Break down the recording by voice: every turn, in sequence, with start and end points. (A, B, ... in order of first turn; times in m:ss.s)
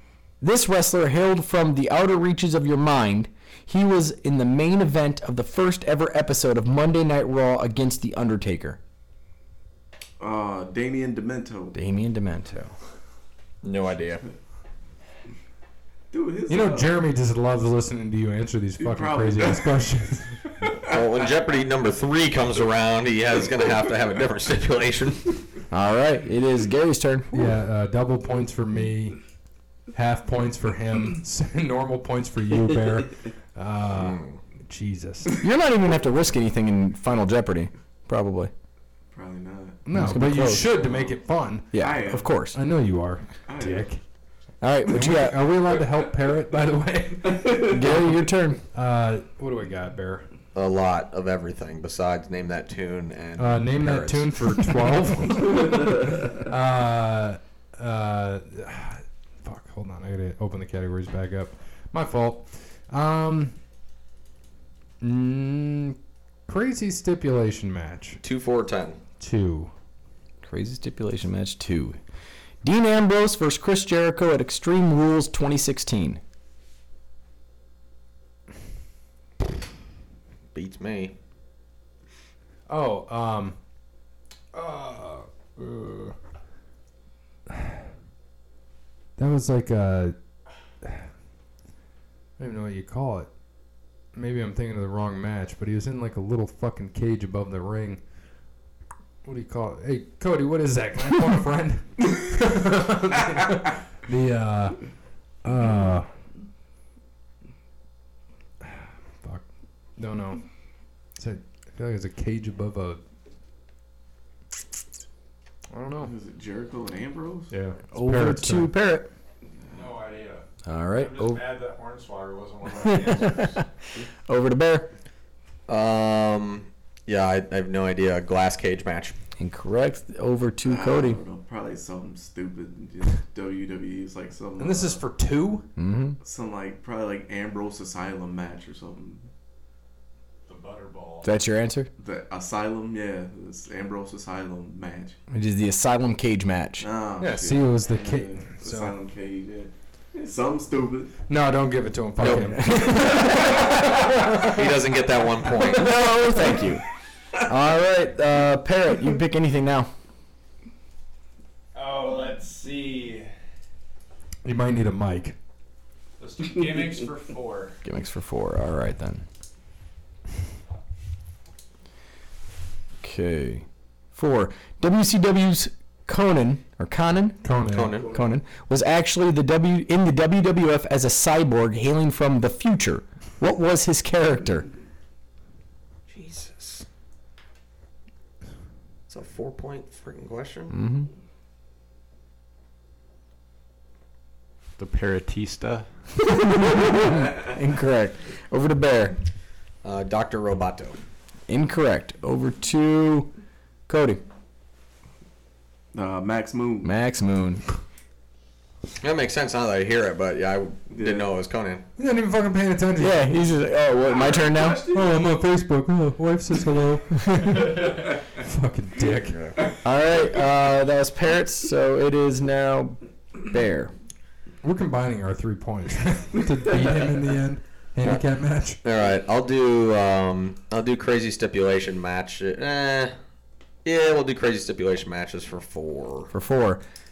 0:00.4-0:08.8 A
0:10.2-0:11.8 B
0:11.7-0:12.7 A
0:13.6-0:14.2 C
0:16.1-0:17.0 B
0:16.5-0:20.5 D
0:18.8-0:19.8 B
0:20.6-0:20.9 B
0:20.8-0:25.4 C
0:25.7-0:27.5 A
0:27.3-0:29.2 D
0:29.9-0:35.4 D
0:34.0-0:34.4 C
0:35.4-0:38.5 A
0:39.1-0:39.8 B
0:39.8-0:41.8 D
0:39.9-0:40.7 A
0:40.8-0:41.1 B
0:41.7-0:42.6 A
0:41.8-0:42.4 B
0:42.5-0:44.0 D
0:43.5-0:43.9 B
0:44.6-0:45.4 A
0:44.9-0:48.1 D
0:47.6-0:48.6 A
0:48.7-0:50.3 D
0:50.5-0:54.7 C
0:53.4-1:03.6 D
1:05.0-1:08.2 D
1:08.2-1:09.0 C
1:09.2-1:09.7 D
1:10.4-1:12.0 A
1:12.6-1:16.2 A
1:20.5-1:21.1 C
1:22.7-1:23.6 D
1:24.5-1:26.2 D
1:29.2-1:30.2 D
1:32.4-1:33.3 D
1:34.2-1:38.0 D
1:39.2-1:44.8 D
1:45.4-1:46.1 D
1:48.6-1:49.4 D
1:50.0-1:50.4 D
1:51.2-1:53.0 D
1:55.7-1:56.1 D
1:56.0-1:57.5 B
1:57.5-1:58.7 D
1:57.9-1:59.1 A
1:59.7-2:03.6 E
2:00.7-2:01.4 A
2:02.8-2:03.6 A
2:04.3-2:04.9 A
2:05.7-2:09.1 C
2:09.4-2:11.2 A
2:10.6-2:15.0 B
2:14.6-2:15.7 D
2:15.8-2:16.2 A
2:16.2-2:19.3 B
2:20.5-2:21.3 E
2:21.2-2:21.9 A
2:22.0-2:25.2 B
2:25.3-2:26.9 A
2:26.8-2:31.1 B
2:27.2-2:28.9 D
2:31.3-2:34.2 D
2:32.2-2:32.8 C
2:32.2-2:34.5 A
2:33.7-2:36.0 C
2:35.7-2:36.8 A
2:37.4-2:39.9 A
2:41.7-2:43.3 E
2:44.4-2:45.4 D
2:46.2-2:47.8 E
2:47.8-2:49.2 A
2:53.0-3:04.7 A
2:57.4-2:58.0 D
2:57.6-2:58.2 C
2:57.9-2:58.2 B
3:06.1-3:06.8 C
3:09.1-3:10.8 C
3:10.7-3:11.1 A
3:14.8-3:15.9 E
3:16.2-3:19.2 A
3:19.8-3:21.0 C
3:21.5-3:23.3 A
3:23.9-3:24.2 A
3:25.9-3:26.9 B
3:26.8-3:27.6 A
3:29.0-3:31.8 C
3:30.9-3:31.3 B
3:32.0-3:33.4 D
3:33.0-3:34.9 A
3:34.2-3:34.8 B
3:34.9-3:39.4 D
3:37.1-3:37.8 A
3:39.3-3:39.7 C
3:39.8-3:43.9 A
3:44.6-3:48.8 D
3:48.8-3:53.2 C
3:53.8-3:56.3 C
3:56.3-3:56.8 A